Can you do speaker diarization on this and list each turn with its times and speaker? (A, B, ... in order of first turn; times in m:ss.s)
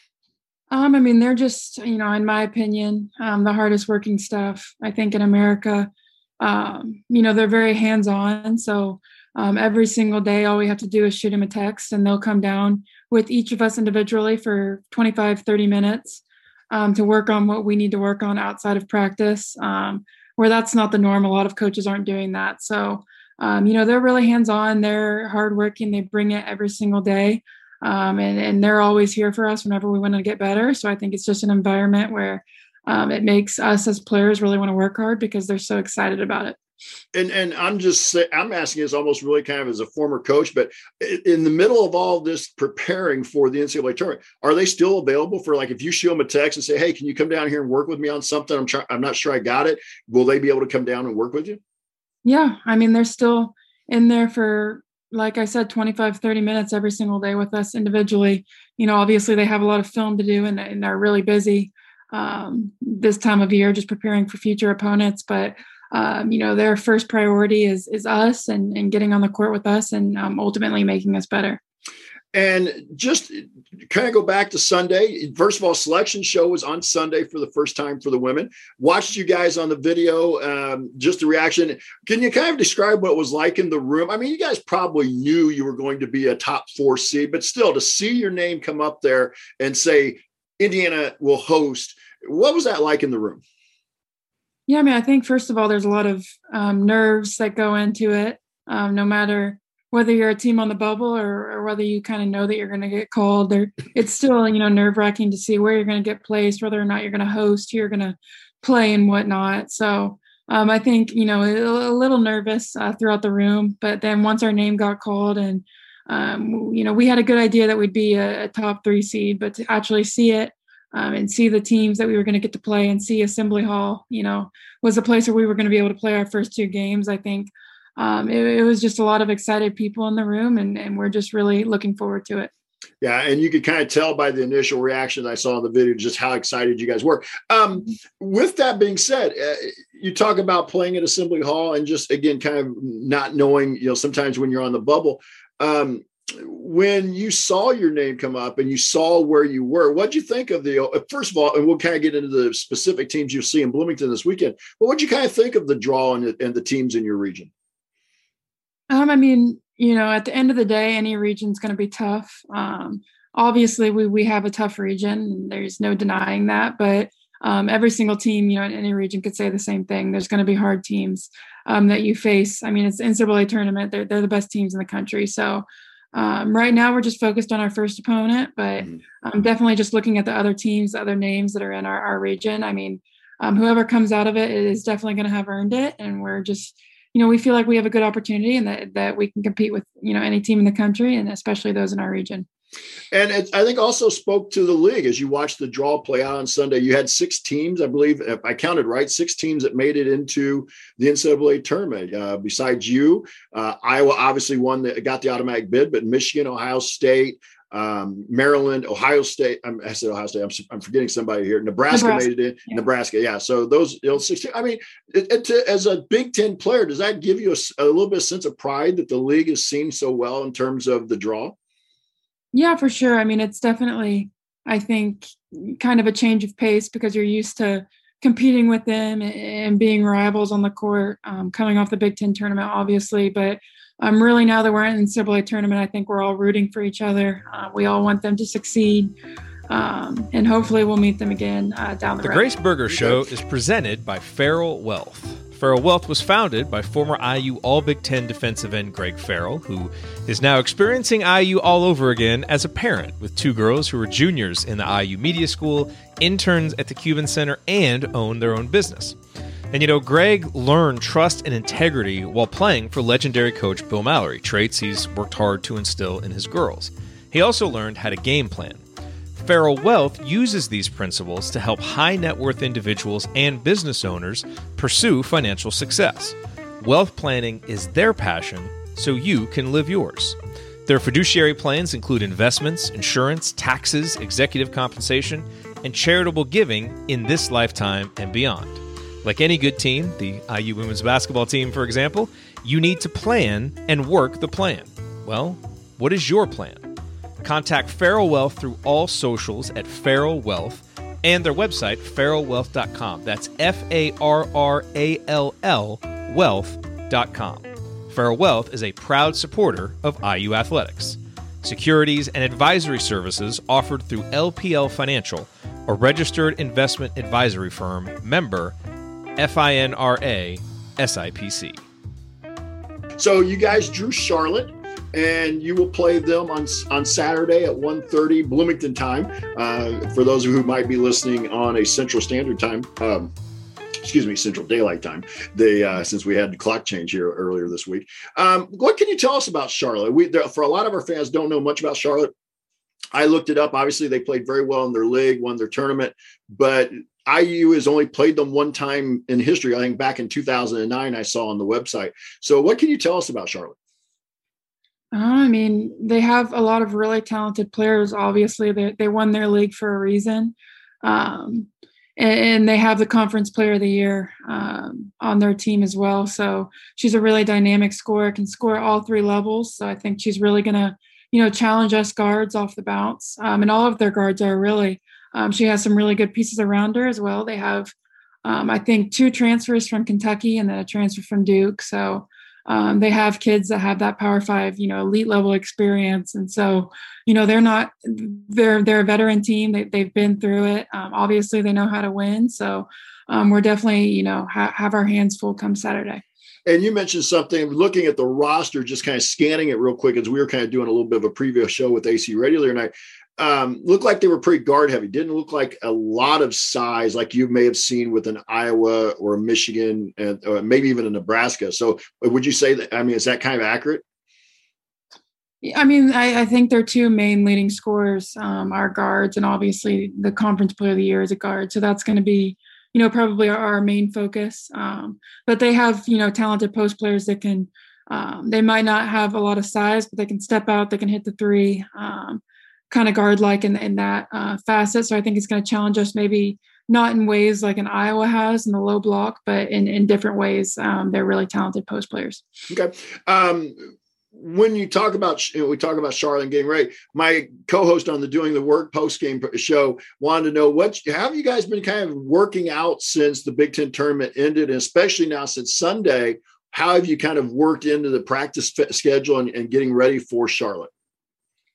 0:00.7-0:36.6 A
0:37.1-0:51.6 B
0:52.2-1:11.6 A
1:12.3-1:33.4 B
1:34.7-2:12.5 A
2:13.0-2:37.5 B
2:38.9-3:12.5 A
3:13.1-3:41.5 B
3:31.9-3:32.8 A
3:42.5-3:59.1 A
3:59.7-4:02.5 A
4:02.2-4:19.2 C
4:02.9-4:03.2 B
4:19.7-4:28.8 C
4:29.3-4:56.8 C
4:57.4-5:18.7 C
5:19.4-5:21.8 C
5:23.2-5:33.3 B
5:34.0-5:42.3 B
5:43.1-5:53.8 B
5:55.1-6:17.9 A
6:18.4-6:36.2 A
6:36.6-6:54.0 B
6:55.6-7:22.4 A
7:22.7-7:40.9 B